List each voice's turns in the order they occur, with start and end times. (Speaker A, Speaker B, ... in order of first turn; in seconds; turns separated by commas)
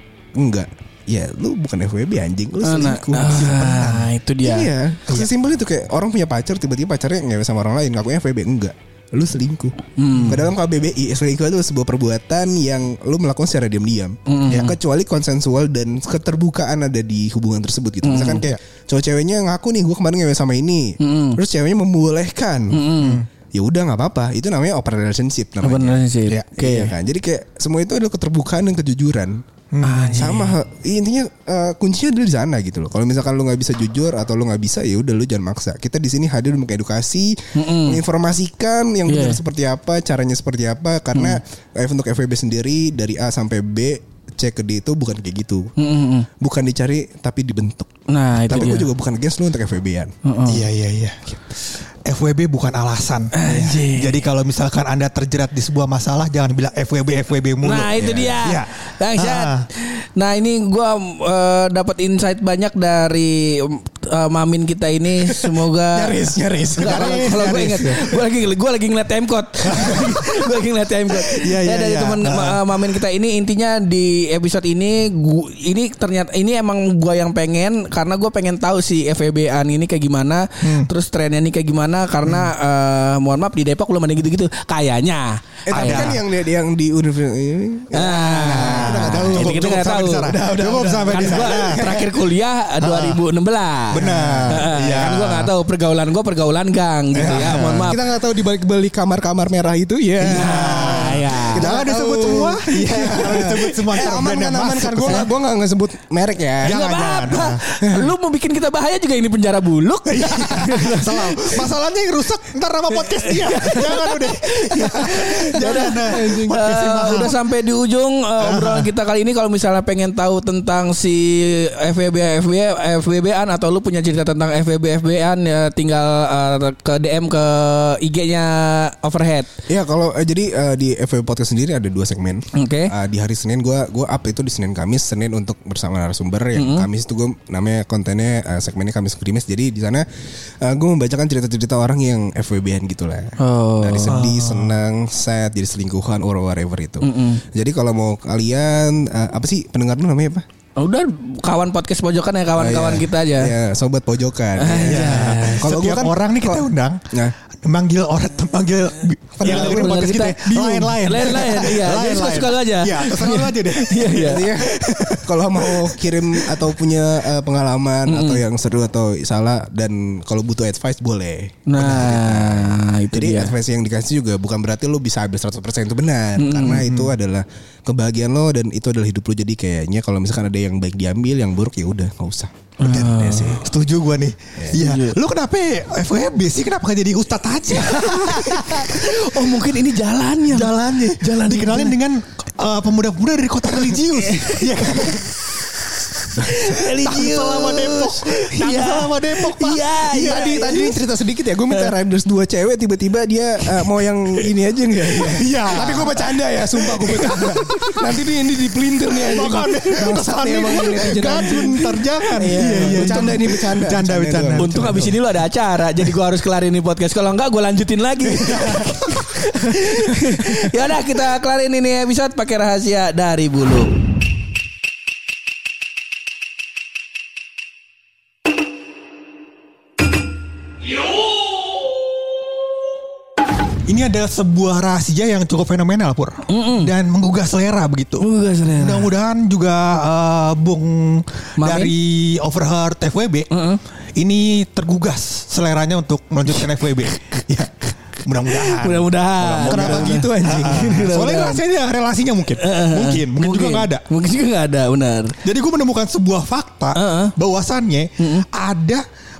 Speaker A: 0.3-22.9, Speaker B: 2.6-4.7, Speaker C: 3.5-4.0, Speaker B: 10.0-10.5, Speaker B: 14.3-14.7, Speaker B: 18.0-18.4, Speaker B: 21.0-21.4, Speaker B: 22.7-23.2, Speaker C: 23.0-23.2, Speaker A: 23.5-26.0, Speaker B: 25.6-26.9, Speaker A: 26.5-29.4, Speaker C: 29.7-30.1, Speaker B: 29.8-30.5, Speaker A: 30.1-45.7, Speaker B: 37.5-38.0, Speaker B: 39.0-39.4, Speaker B: 41.1-41.4, Speaker B: 45.8-46.3, Speaker A: 46.4-50.1, Speaker B: 48.1-48.9, Speaker B: 50.2-50.6, Speaker C: 50.5-59.7, Speaker B: 53.3-54.2, Speaker B: 57.6-86.1, Speaker A: 65.2-67.3, Speaker C: 66.7-68.1, Speaker C: 69.6-70.2, Speaker C: 71.2-72.7, Speaker C: 80.6-80.9, Speaker C: 82.2-82.5, Speaker A: 85.7-92.2, Speaker C: 85.7-86.2, Speaker B: 87.9-90.3, Speaker C: 88.6-92.0, Speaker B: 91.1-98.0, Speaker A: 92.8-93.2, Speaker C: 93.9-95.5, Speaker A: 93.9-94.6, Speaker A: 97.1-106.9, Speaker C: 97.2-97.9, Speaker B: 100.2-101.7, Speaker C: 100.2-105.3, Speaker C: 106.6-107.6, Speaker B: 106.7-111.7, Speaker A: 107.8-108.1, Speaker C: 110.1-117.4, Speaker B: 113.0-129.5, Speaker A: 115.6-116.7, Speaker C: 118.4-118.9, Speaker A: 129.7-140.1, Speaker B: 132.5-132.9, Speaker B: 136.5-136.9, Speaker A: 140.6-150.4, Speaker B: 143.4-144.2, Speaker C: 144.1-144.7, Speaker B: 147.0-147.4, Speaker B: 150.8-153.5, Speaker A: 152.6-157.3, Speaker B: 154.6-155.7, Speaker C: 154.8-157.1, Speaker C: 157.6-166.5, Speaker A: 159.4-161.5, Speaker B: 159.4-160.4, Speaker B: 161.0-164.5, Speaker A: 164.1-182.5, Speaker B: 168.1-168.4, Speaker B: 171.7-173.5, Speaker B: 176.4-176.9, Speaker C: 176.8-177.1, Speaker B: 182.8-183.7, Speaker C: 182.8-189.4, Speaker A: 183.1-183.6, Speaker B: 184.7-185.2, Speaker B: 187.7-191.9, Speaker C: 190.5-195.4, Speaker B: 193.9-195.2, Speaker B: 196.3-201.0, Speaker C: 196.6-200.6, Speaker A: 200.1-215.1, Speaker B: 205.2-206.0, Speaker C: 205.3-206.4, Speaker B: 207.0-208.0, Speaker C: 207.1-207.4, Speaker C: 209.1-215.2, Speaker B: 212.4-213.4, Speaker B: 214.5-223.9, Speaker C: 218.4-219.1, Speaker C: 233.8-243.5, Speaker B: 236.5-236.9, Speaker B: 238.2-239.1, Speaker B: 241.6-241.9, Speaker B: 243.5-243.8, Speaker C: 244.2-254.0, Speaker B: 248.4-251.6, Speaker A: 249.6-251.0, Speaker B: 252.6-255.4, Speaker C: 255.4-259.0, Speaker B: 256.9-257.3, Speaker B: 258.2-258.4